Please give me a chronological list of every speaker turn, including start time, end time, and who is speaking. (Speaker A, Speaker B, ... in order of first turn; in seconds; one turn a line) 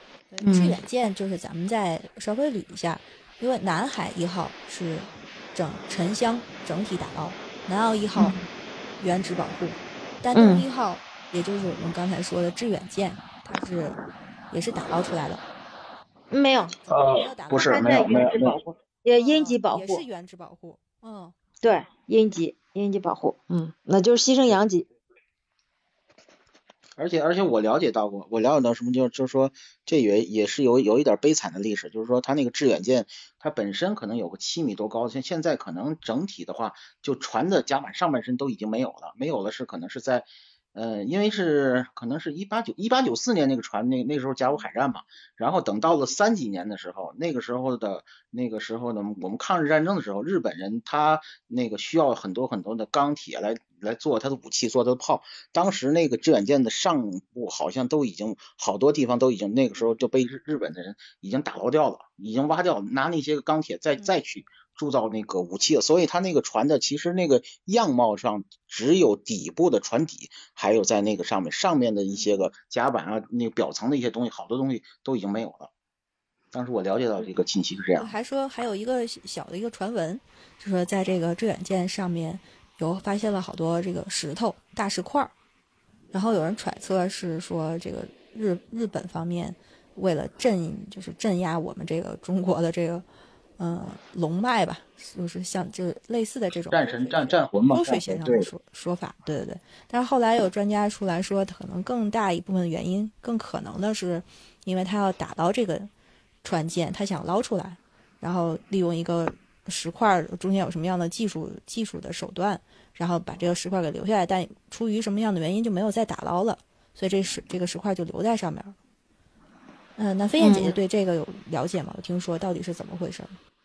Speaker A: 0.3-8.4
Speaker B: 0.4-0.8
Speaker B: 8.2-8.4
Speaker A: 9.0-14.0
Speaker B: 10.3-10.7
Speaker A: 14.5-15.4
Speaker B: 16.3-16.8
Speaker A: 16.8-18.4
Speaker C: 16.9-18.6
Speaker B: 17.5-20.0
Speaker A: 19.2-21.4
Speaker B: 21.6-24.9
Speaker C: 27.0-75.7
Speaker A: 72.1-72.5
Speaker C: 76.5-78.1
Speaker A: 78.0-85.3
Speaker A: 86.1-93.0
Speaker A: 93.6-105.9
Speaker C: 96.7-98.5
Speaker A: 106.4-118.8
Speaker A: 120.0-123.4
Speaker B: 120.4-120.8